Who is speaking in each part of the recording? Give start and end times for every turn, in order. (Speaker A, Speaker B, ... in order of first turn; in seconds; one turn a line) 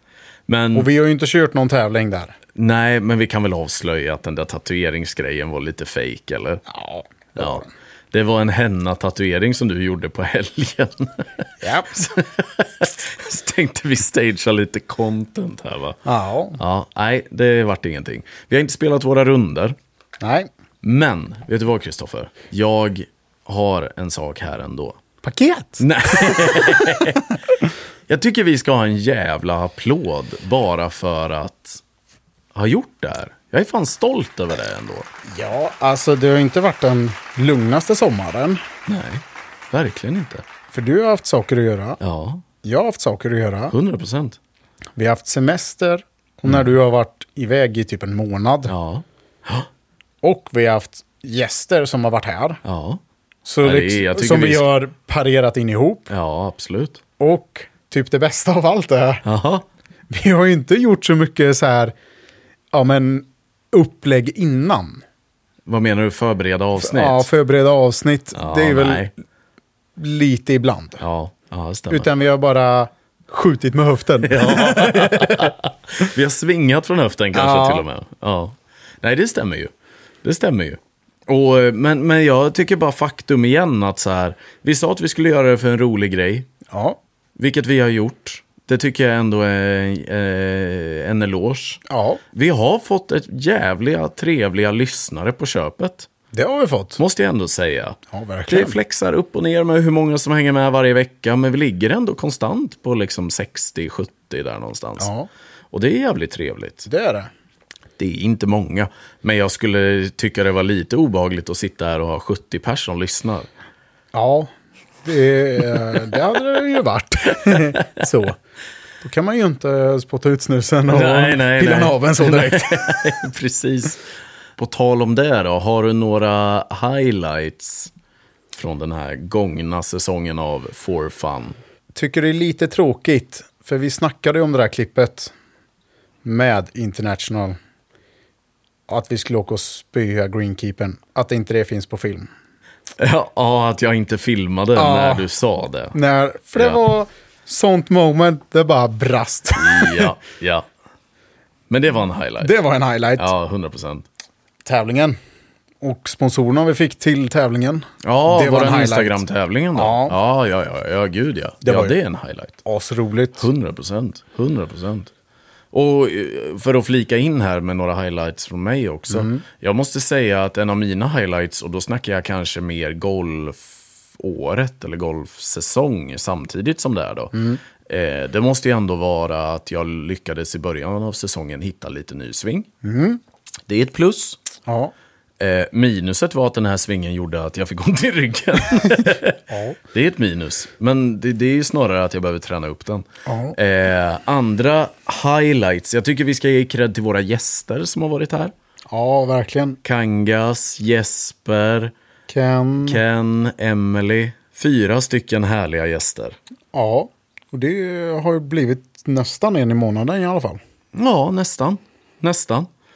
Speaker A: 0.5-0.9
Speaker B: 0.7-2.3
Speaker A: 2.5-6.6
Speaker B: 6.7-7.7
Speaker A: 7.3-16.0
Speaker B: 11.6-11.9
Speaker B: 16.0-16.6
Speaker A: 16.5-19.8
Speaker B: 20.2-20.5
Speaker A: 20.8-25.0
Speaker B: 25.2-27.0
Speaker A: 25.8-27.3
Speaker A: 28.1-31.8
Speaker A: 32.5-35.1
Speaker B: 35.3-38.6
Speaker A: 38.9-40.4
Speaker B: 40.7-42.0
Speaker A: 42.0-42.4
Speaker B: 42.6-43.7
Speaker A: 43.7-44.4
Speaker B: 45.0-48.7
Speaker A: 48.7-49.7
Speaker B: 50.2-52.6
Speaker A: 52.6-53.0
Speaker B: 53.4-56.1
Speaker A: 53.6-54.7
Speaker A: 56.1-57.0
Speaker B: 57.2-59.2
Speaker A: 59.2-59.6
Speaker B: 60.1-61.9
Speaker B: 62.7-65.0
Speaker A: 65.7-67.3
Speaker B: 66.8-69.1
Speaker A: 68.3-69.1
Speaker B: 70.0-71.0
Speaker A: 71.0-72.1
Speaker B: 71.9-75.5
Speaker A: 74.2-79.7
Speaker B: 77.3-77.8
Speaker A: 80.2-86.5
Speaker B: 86.7-87.0
Speaker A: 87.4-96.1
Speaker B: 91.9-92.2
Speaker B: 96.3-97.0
Speaker A: 97.0-105.1
Speaker B: 98.1-98.8
Speaker B: 105.0-105.3
Speaker A: 105.7-106.9
Speaker B: 106.9-107.3
Speaker A: 108.0-113.5
Speaker B: 114.1-114.5
Speaker B: 115.0-118.4
Speaker B: 119.0-123.0
Speaker A: 120.9-124.0
Speaker A: 124.6-127.9
Speaker A: 128.5-131.6
Speaker B: 131.9-135.3
Speaker B: 136.2-137.6
Speaker B: 138.9-142.3
Speaker A: 143.0-145.9
Speaker B: 144.7-145.3
Speaker B: 145.9-150.1
Speaker A: 149.6-150.7
Speaker A: 151.7-152.5
Speaker B: 152.4-153.3
Speaker A: 153.2-154.1
Speaker B: 154.6-155.2
Speaker B: 155.8-159.2
Speaker A: 158.0-162.6
Speaker B: 159.8-160.1
Speaker B: 161.6-161.9
Speaker B: 162.6-163.5
Speaker A: 163.3-165.1
Speaker A: 165.7-182.7
Speaker B: 169.1-169.4
Speaker B: 177.3-177.6
Speaker B: 182.8-183.2
Speaker A: 183.7-184.4
Speaker B: 184.7-184.9
Speaker A: 185.4-198.5
Speaker B: 189.5-189.8
Speaker B: 193.2-193.6
Speaker B: 198.9-199.8
Speaker A: 199.8-201.9
Speaker B: 202.3-203.0
Speaker A: 202.8-206.4
Speaker B: 206.7-210.6
Speaker A: 210.9-212.7